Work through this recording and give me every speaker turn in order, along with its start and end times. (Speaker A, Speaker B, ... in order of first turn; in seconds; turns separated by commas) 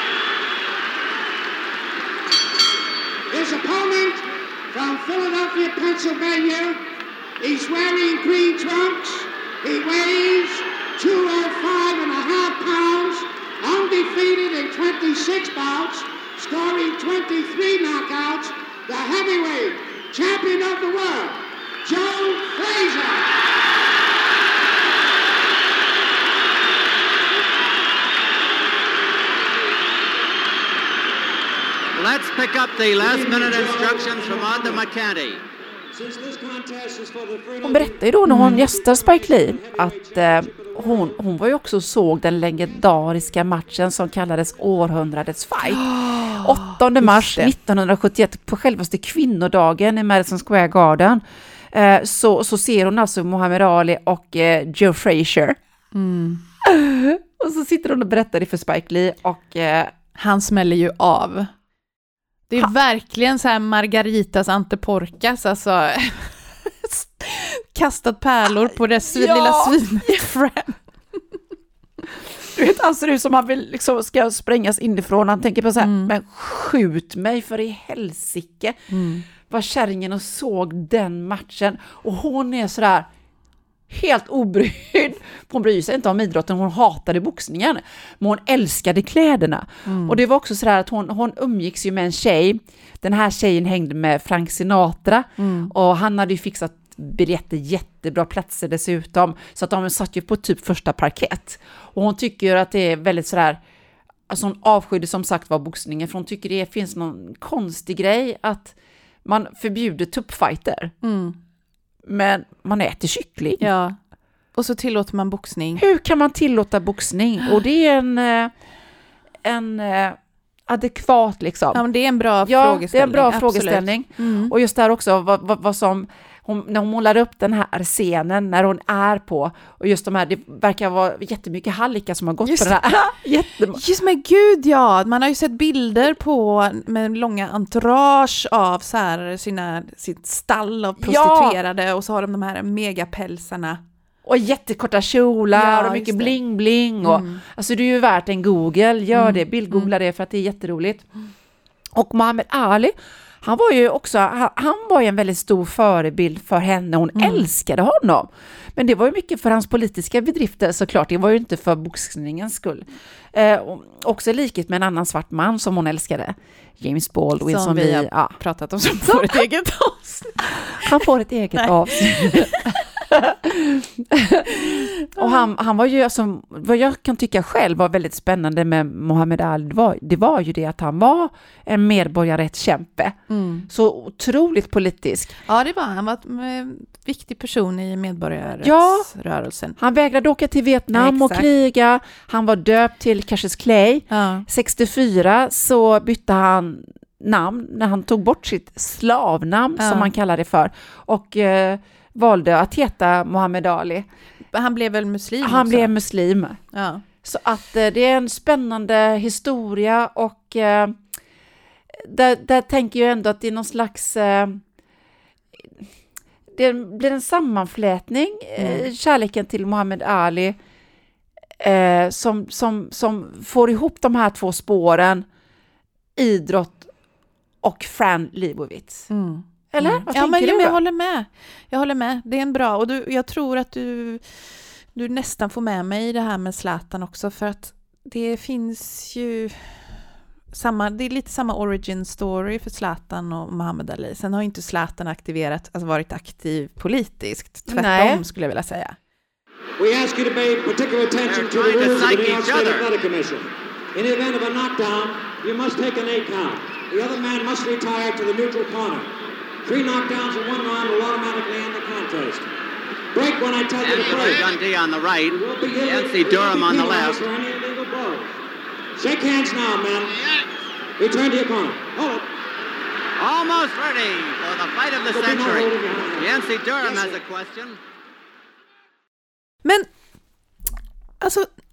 Speaker A: 3.3-6.8, Speaker A: 7.4-23.3, Speaker B: 31.9-35.4, Speaker A: 33.0-34.8, Speaker A: 35.9-41.2, Speaker C: 37.6-55.6, Speaker D: 38.2-38.6, Speaker D: 45.7-47.5, Speaker D: 55.9-56.4, Speaker C: 56.6-59.9, Speaker D: 60.1-61.5, Speaker D: 62.5-70.8, Speaker C: 69.1-70.1, Speaker C: 72.5-78.9, Speaker D: 75.8-76.1, Speaker D: 78.9-79.2, Speaker C: 79.4-83.1, Speaker C: 83.9-103.6, Speaker D: 89.8-90.2, Speaker D: 95.4-95.7, Speaker C: 104.3-108.7, Speaker C: 109.2-110.9, Speaker D: 111.0-111.3, Speaker C: 112.0-113.7, Speaker D: 113.6-114.0, Speaker D: 114.5-115.8, Speaker C: 115.8-118.5, Speaker C: 119.4-121.8, Speaker D: 121.7-124.5, Speaker C: 122.4-133.8, Speaker D: 132.4-132.9, Speaker D: 133.7-143.8, Speaker C: 141.0-141.6, Speaker C: 144.2-151.0, Speaker D: 145.5-146.4, Speaker D: 147.0-147.4, Speaker D: 149.1-149.9, Speaker C: 151.9-168.4, Speaker D: 157.2-157.4, Speaker D: 167.4-170.9, Speaker C: 169.0-169.4, Speaker C: 170.8-183.2, Speaker D: 171.6-172.8, Speaker D: 174.5-175.4, Speaker D: 183.3-183.7, Speaker C: 183.7-185.3, Speaker D: 185.4-189.8, Speaker C: 188.6-189.1, Speaker C: 189.8-204.1, Speaker D: 190.9-191.5, Speaker D: 194.1-194.4, Speaker D: 199.8-200.1, Speaker D: 204.5-205.9, Speaker C: 205.4-206.6, Speaker D: 206.7-207.0, Speaker C: 207.2-211.0, Speaker C: 211.9-214.6, Speaker C: 216.5-220.6, Speaker C: 221.6-225.2, Speaker C: 226.2-226.9, Speaker C: 227.6-229.1, Speaker D: 229.1-239.9, Speaker C: 229.7-230.8, Speaker D: 240.5-249.0, Speaker C: 247.7-248.2, Speaker A: 249.8-259.1, Speaker B: 251.2-252.9, Speaker A: 259.6-262.5, Speaker A: 263.1-264.6, Speaker B: 263.8-267.2, Speaker A: 265.3-268.3, Speaker A: 269.0-270.2, Speaker A: 271.0-272.2, Speaker B: 273.2-277.8, Speaker A: 275.1-277.2, Speaker D: 281.2-281.5